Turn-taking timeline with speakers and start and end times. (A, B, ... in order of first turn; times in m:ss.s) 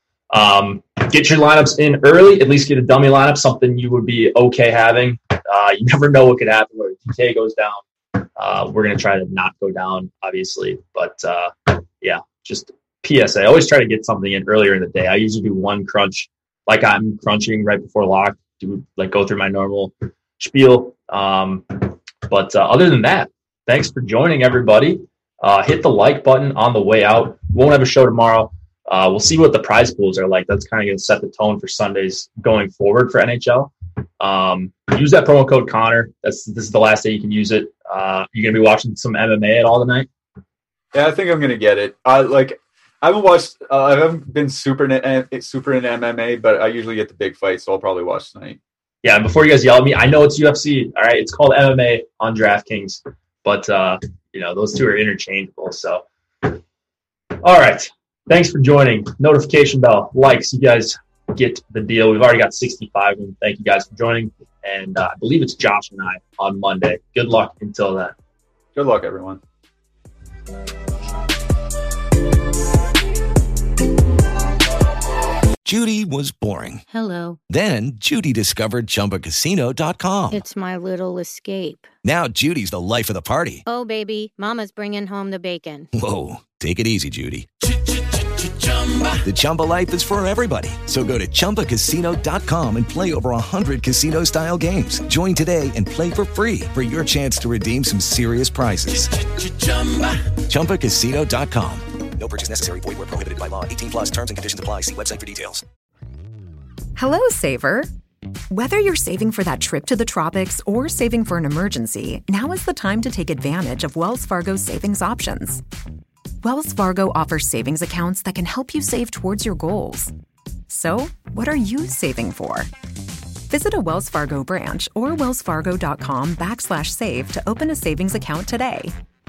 0:00.3-0:40.1 A
0:40.9-0:48.6 B
0:49.0-0:56.6 A
0:57.4-1:08.1 A
1:08.7-1:09.4 B
1:15.6-1:16.8 C
1:16.9-1:17.4 D
1:17.5-1:20.4 C
1:20.3-1:21.9 D
1:22.0-1:23.6 C
1:23.6-1:25.9 D
1:25.9-1:27.5 C
1:29.2-1:45.6 C
1:46.9-1:47.9 E
1:48.5-1:55.6 E
1:56.4-2:00.1 E
2:00.7-2:02.7 E
2:03.5-2:08.9 E